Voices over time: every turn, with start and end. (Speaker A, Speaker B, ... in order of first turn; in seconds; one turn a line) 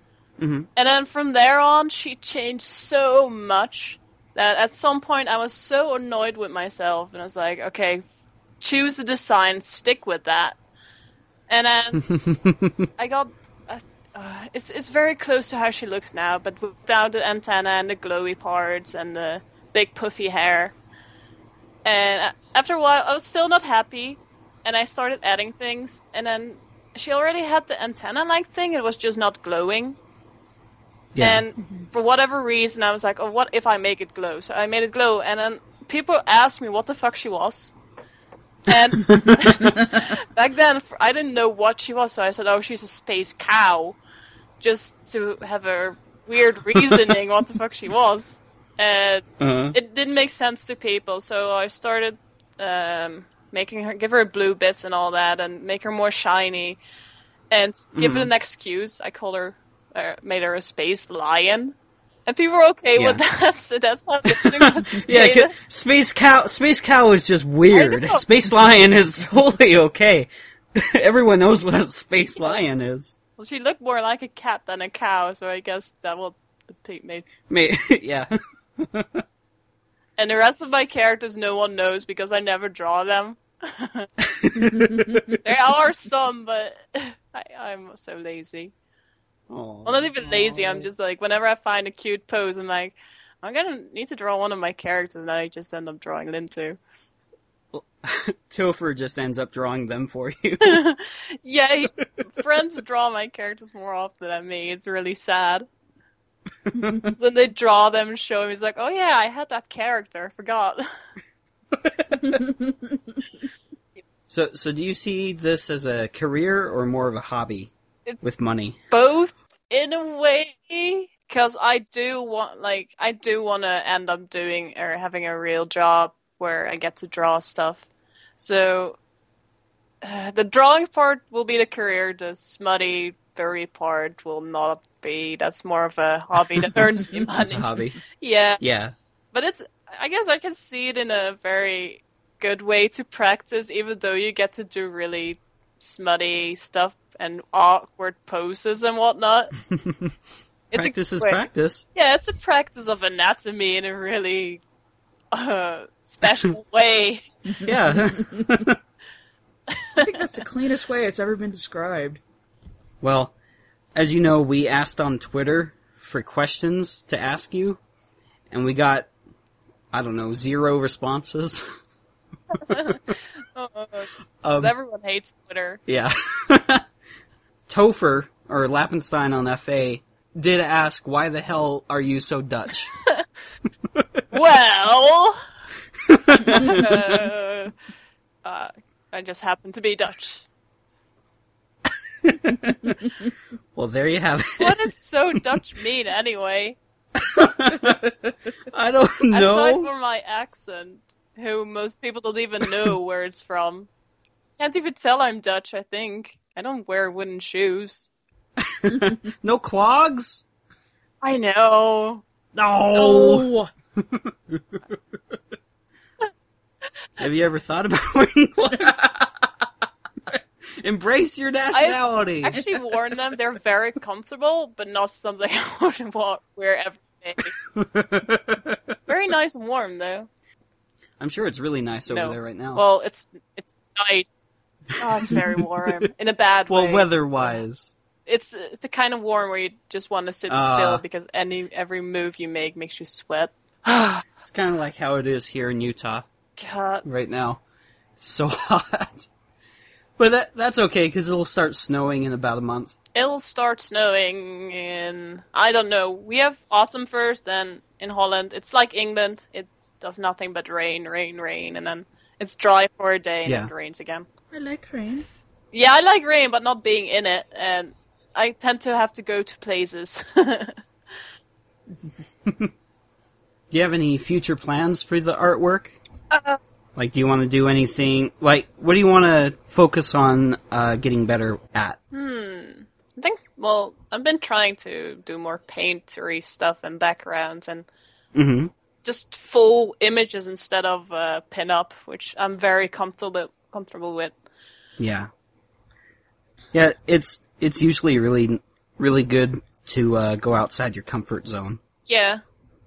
Speaker A: 0.4-0.7
Speaker B: 0.8-8.0
Speaker B: 8.6-10.6
Speaker B: 11.5-12.1
Speaker A: 12.0-12.9
Speaker B: 13.0-20.7
Speaker B: 21.9-30.0
Speaker A: 31.1-31.4
Speaker B: 31.2-37.7
Speaker B: 38.7-44.0
Speaker A: 39.1-39.6
Speaker B: 44.6-56.8
Speaker A: 46.7-47.1
Speaker A: 49.4-49.8
Speaker B: 57.5-61.8
Speaker A: 58.0-58.3
Speaker B: 62.3-65.5
Speaker A: 63.0-63.2
Speaker A: 64.3-73.1
Speaker B: 67.7-68.2
Speaker B: 73.4-77.3
Speaker A: 77.5-79.2
Speaker B: 80.2-84.1
Speaker A: 84.2-85.4
Speaker B: 85.4-88.7
Speaker A: 89.5-90.9
Speaker B: 89.8-96.8
Speaker A: 97.7-100.8
Speaker B: 100.6-105.7
Speaker A: 106.7-107.1
Speaker B: 107.0-110.9
Speaker A: 111.7-112.4
Speaker A: 114.3-118.8
Speaker B: 118.9-129.0
Speaker B: 130.0-138.6
Speaker A: 137.4-138.0
Speaker A: 138.6-138.9
Speaker B: 139.3-149.5
Speaker A: 149.7-150.2
Speaker B: 150.7-151.4
Speaker A: 150.7-151.9
Speaker B: 151.9-154.6
Speaker B: 155.3-157.3
Speaker A: 157.6-158.8
Speaker B: 159.7-160.1
Speaker C: 160.0-162.2
Speaker A: 163.0-163.3
Speaker A: 163.9-167.8
Speaker A: 168.5-169.1
Speaker A: 169.9-171.6
Speaker B: 172.5-173.0
Speaker A: 172.7-173.0
Speaker B: 173.6-175.8
Speaker A: 174.4-174.7
Speaker A: 175.9-176.8
Speaker A: 177.7-182.9
Speaker B: 182.9-183.2
Speaker A: 183.9-184.2
Speaker B: 184.3-185.4
Speaker A: 186.1-187.3
Speaker B: 186.3-187.7
Speaker B: 188.4-190.5
Speaker A: 192.2-193.1
Speaker A: 193.8-195.4
Speaker B: 194.6-196.8
Speaker A: 197.2-199.9
Speaker B: 199.3-203.9
Speaker B: 204.6-208.1
Speaker A: 208.6-210.4
Speaker B: 211.2-212.2
Speaker A: 212.5-214.8
Speaker C: 212.9-213.7
Speaker A: 217.2-219.1
Speaker A: 220.3-222.6
Speaker B: 221.7-227.5
Speaker A: 227.7-229.0
Speaker B: 229.1-230.3
Speaker A: 231.2-232.8
Speaker B: 232.1-234.3
Speaker B: 235.0-237.6
Speaker A: 235.2-235.9
Speaker A: 236.7-237.9
Speaker B: 238.3-244.2
Speaker A: 240.5-241.0
Speaker A: 244.4-246.3
Speaker B: 246.6-247.1
Speaker A: 247.1-247.6
Speaker A: 248.2-249.3
Speaker A: 250.2-252.9
Speaker B: 253.2-264.3
Speaker A: 263.5-263.7
Speaker C: 264.5-265.3
Speaker B: 265.7-270.8
Speaker A: 272.4-272.7
Speaker A: 273.7-276.0
Speaker B: 276.3-276.6
Speaker A: 277.0-282.0
Speaker B: 282.1-287.9
Speaker A: 288.3-288.7
Speaker B: 289.0-294.4
Speaker A: 295.0-295.3
Speaker A: 296.7-301.8
Speaker B: 302.1-302.4